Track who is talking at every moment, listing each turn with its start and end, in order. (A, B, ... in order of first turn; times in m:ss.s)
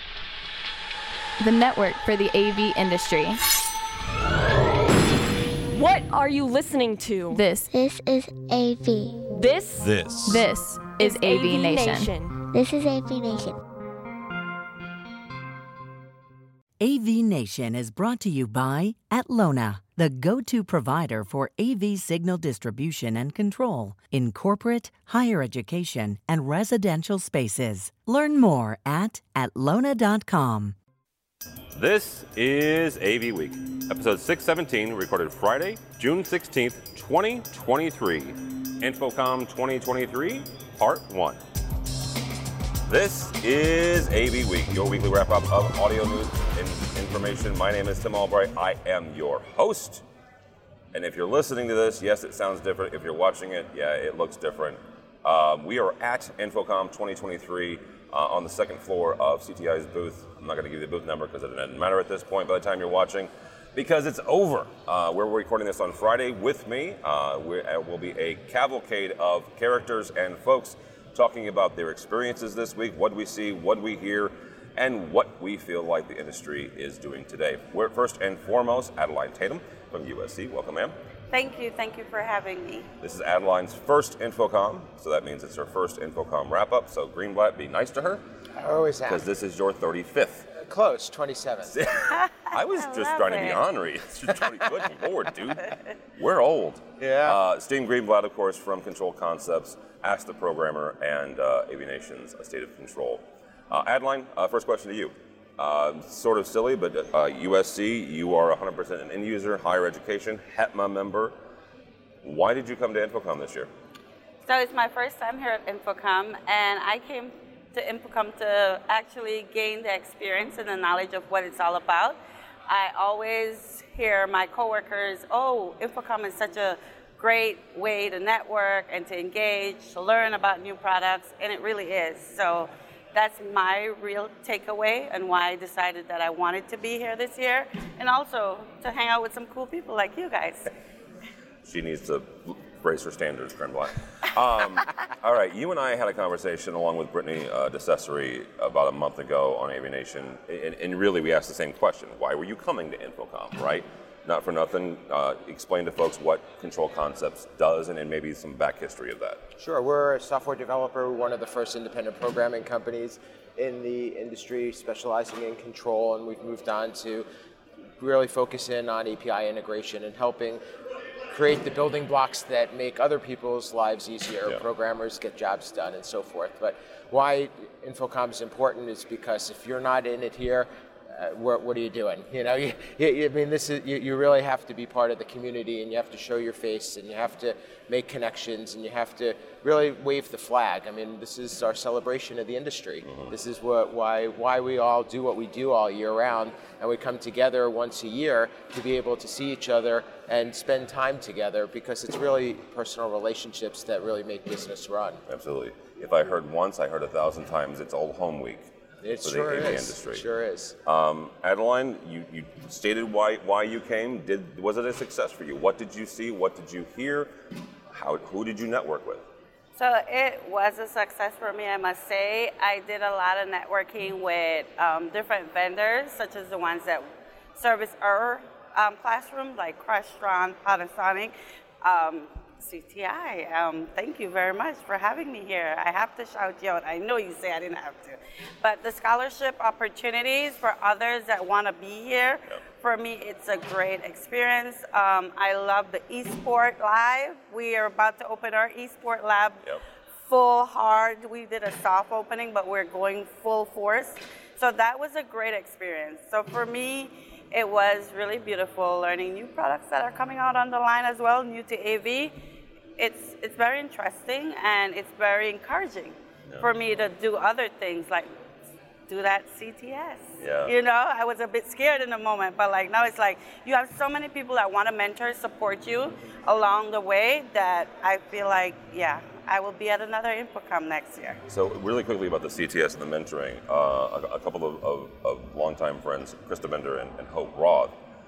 0:01.4-0:03.4 A
0:05.7-0:07.4 B
0:07.3-0:07.7 A
0:07.7-0:09.2 C
0:09.3-0:10.0 B
0:09.8-0:10.2 D
0:10.2-0:12.1 A
0:11.0-0:12.3 B
0:12.4-0:13.6 C
0:16.8-0:30.8 E
0:31.7-0:41.4 D
0:42.9-0:50.0 D
0:50.9-1:20.9 D
1:21.3-1:22.9 F
1:23.0-1:28.2 D
1:28.6-1:29.2 G
1:29.0-1:30.5 D
1:30.5-1:31.7 G
1:31.7-1:51.3 D
1:32.1-1:33.6 F
1:37.0-1:37.4 G
1:52.2-1:53.7 D
1:54.4-2:02.2 F
2:02.7-2:20.7 F
2:21.6-2:39.4 D
2:39.6-2:47.2 G
2:48.0-2:50.6 G
2:51.3-3:25.2 G
3:13.1-3:13.3 D
3:25.3-3:28.7 D
3:29.0-3:30.7 G
3:29.2-3:30.2 D
3:30.8-3:37.3 D
3:37.9-3:39.2 D
3:39.8-3:47.0 F
3:47.6-4:09.6 F
4:10.3-4:22.4 F
4:23.0-4:28.3 F
4:29.1-4:41.4 F
4:30.4-4:30.7 D
4:41.5-4:47.9 D